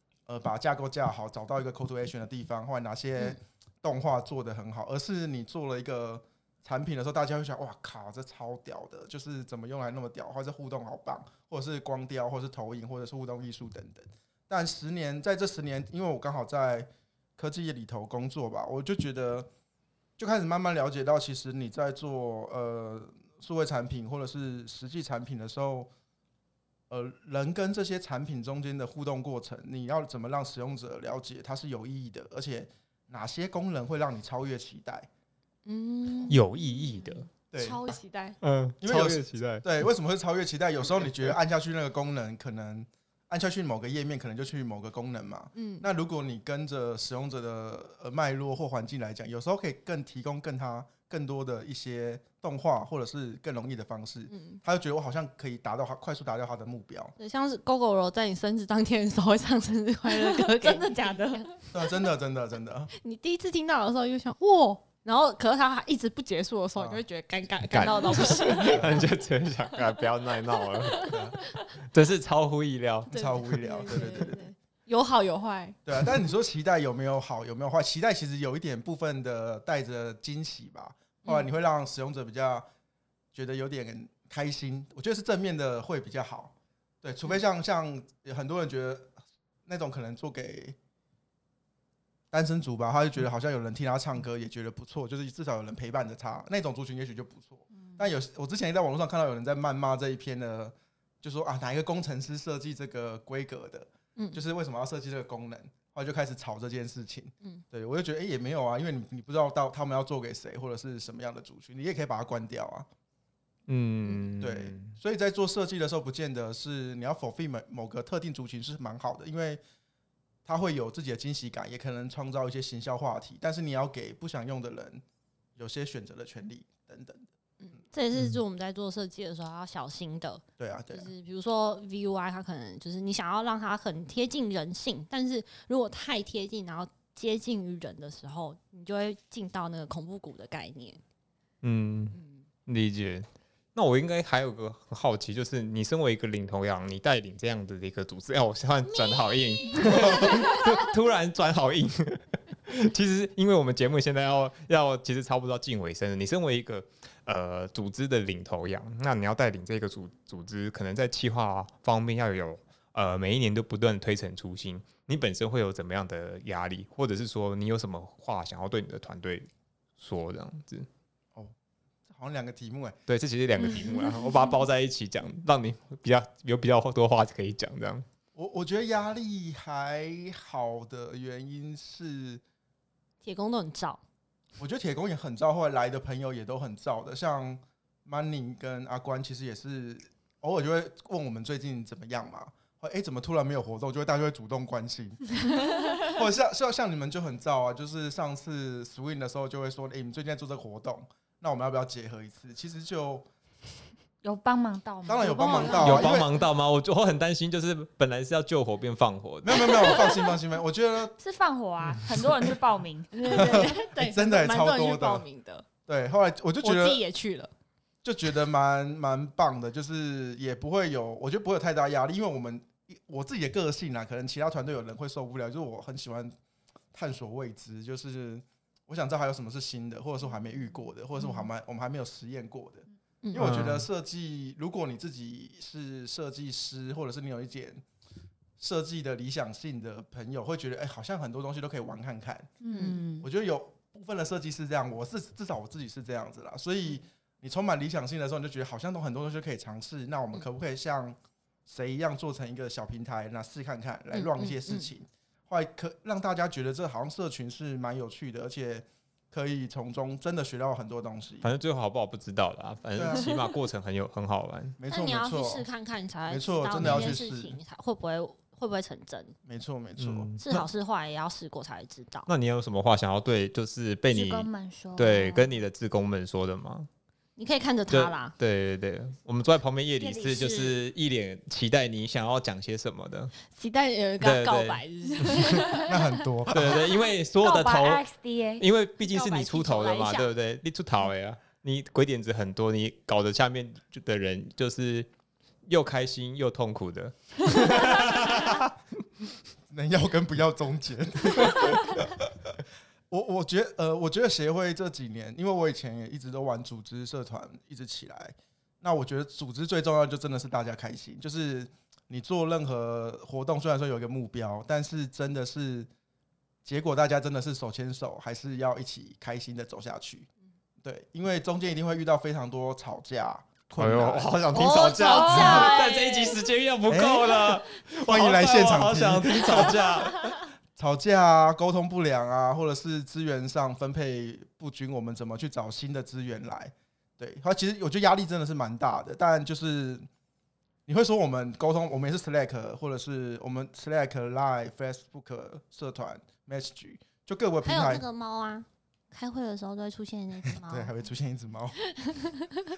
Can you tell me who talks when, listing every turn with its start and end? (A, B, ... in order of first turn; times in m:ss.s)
0:00.3-0:19.5 A
0:20.2-0:25.9 A
0:26.9-0:35.1 A
0:35.7-0:36.4 B
0:36.3-0:37.3 C
0:37.5-0:37.9 A
0:37.6-0:38.4 B
0:38.4-0:39.7 C
0:38.8-0:57.2 A
0:45.6-0:45.9 B
0:54.3-0:54.6 B
0:57.2-1:01.5 B
1:00.1-1:01.7 D
1:01.7-1:02.9 A
1:03.0-1:09.0 B
1:06.8-1:07.0 A
1:07.7-1:11.2 C
1:08.6-1:09.1 A
1:10.6-1:11.6 B
1:11.1-1:11.4 A
1:11.8-1:13.4 C
1:13.1-1:14.4 A
1:13.1-1:15.8 B
1:15.9-1:22.7 A
1:23.3-1:30.8 A
1:32.3-1:52.9 A
1:44.2-1:44.4 B
1:53.7-1:55.0 C
1:54.4-1:59.6 A
2:00.4-2:05.0 A
2:05.6-2:07.2 A
2:07.6-2:21.0 B
2:10.6-2:11.1 A
2:21.6-2:22.2 C
2:22.1-2:22.4 B
2:22.7-2:49.5 C
2:28.9-2:30.9 B
2:50.0-2:50.9 C
2:52.1-2:53.0 A
2:53.1-2:58.0 C
2:53.8-2:54.0 D
2:58.4-3:02.4 A
3:03.2-3:04.0 B
3:04.6-3:23.3 A
3:24.2-3:26.0 D
3:25.0-3:26.4 A
3:25.2-3:26.1 B
3:25.8-3:30.0 C
3:29.4-3:31.1 A
3:31.2-3:33.6 D
3:33.1-3:35.7 B
3:33.3-3:35.3 A
3:35.9-3:37.0 A
3:36.6-3:37.5 B
3:38.0-3:46.3 A
3:46.9-3:57.8 A
3:53.2-3:53.6 B
3:53.4-3:53.9 C
3:58.6-4:02.6 A
4:02.6-4:03.3 D
4:02.7-4:03.0 B
4:03.2-4:21.5 A
4:14.1-4:14.9 B
4:21.4-4:24.8 C
4:23.0-4:23.3 A
4:24.8-4:25.7 A
4:24.9-4:29.3 B
4:26.3-4:27.6 A
4:26.8-4:27.1 C
4:29.4-4:30.3 A
4:30.0-4:30.6 C
4:30.4-4:32.3 B
4:32.3-4:36.9 C
4:34.1-4:35.6 D
4:37.4-4:38.3 B
4:37.9-4:43.3 C
4:40.0-4:40.8 D
4:43.5-4:46.1 B
4:44.2-4:45.7 C
4:45.8-4:46.9 A
4:46.5-4:48.0 C
4:47.4-4:50.2 D
4:48.6-4:55.1 C
4:55.7-4:58.7 C
4:59.7-5:02.6 A
5:03.1-5:15.9 A
5:16.6-5:20.3 A
5:20.8-5:24.4 A
5:23.8-5:30.2 C
5:24.5-5:26.4 B
5:25.0-5:25.7 D
5:25.3-5:25.7 A
5:26.9-5:40.1 A
5:40.9-5:48.0 A
5:47.6-5:50.9 B
5:50.5-5:51.8 A
5:52.0-5:52.7 B